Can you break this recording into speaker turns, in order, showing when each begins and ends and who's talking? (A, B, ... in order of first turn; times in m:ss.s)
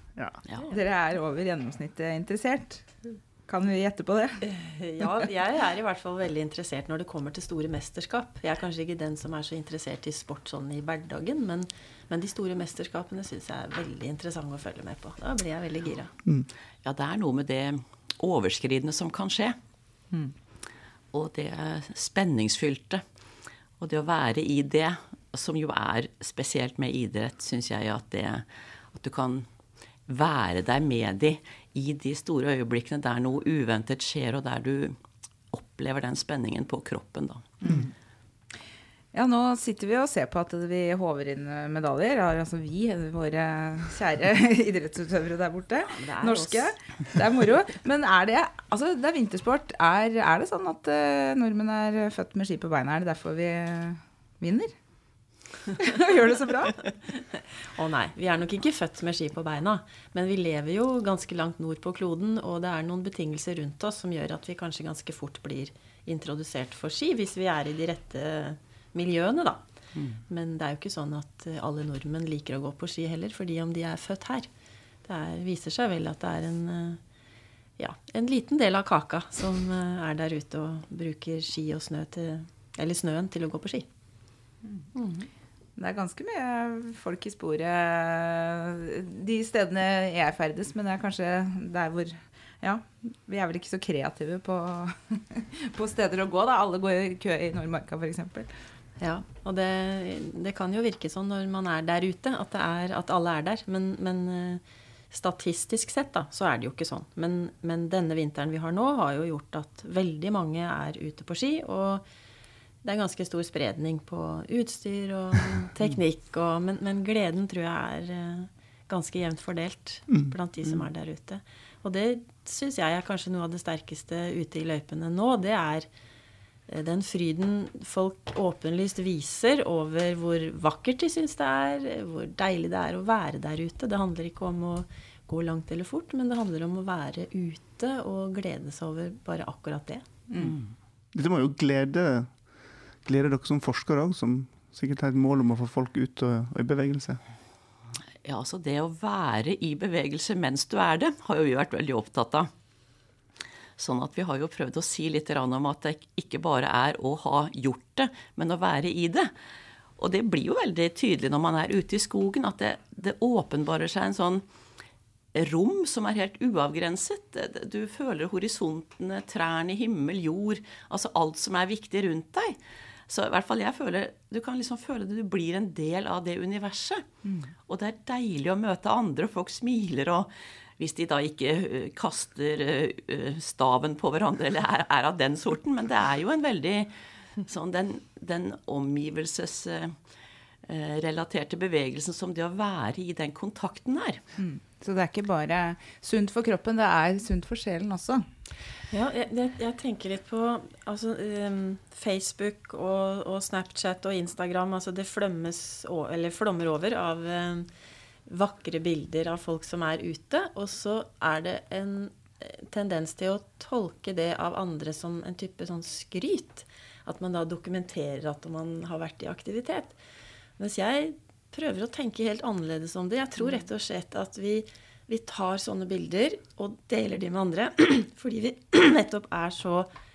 0:00.7-0:02.9 A
0:03.5-0:04.4 A
0:04.4-0:16.1 B
0:16.8-0:19.6 C
0:21.1-0:23.0 C
0:23.8-0:29.5 C
0:30.1-0:35.0 C
0:35.5-0:37.5 C
0:37.6-0:37.9 A
0:39.1-0:54.7 A
0:45.9-0:46.7 B
0:55.7-0:56.8 A
0:57.8-1:09.6 B
1:10.0-1:10.2 C
1:10.3-1:14.5 B
1:15.0-1:17.0 B
1:17.8-1:23.9 B
1:25.0-1:25.3 B
1:25.8-1:38.5 A
1:39.0-1:52.0 B
1:52.8-2:05.9 B
2:00.1-2:00.3 D
2:06.7-2:20.0 B
2:20.4-2:20.6 C
2:21.1-2:22.3 D
2:23.0-2:27.2 D
2:28.2-2:32.5 C
2:33.8-2:39.3 C
2:40.0-2:44.4 C
2:45.3-2:52.6 C
2:53.1-2:57.1 C
2:57.7-3:06.9 C
3:07.4-3:10.0 C
3:10.7-3:14.2 C
3:14.4-3:18.2 A
3:18.9-3:27.7 B
3:28.3-3:40.0 B
3:40.6-3:49.9 B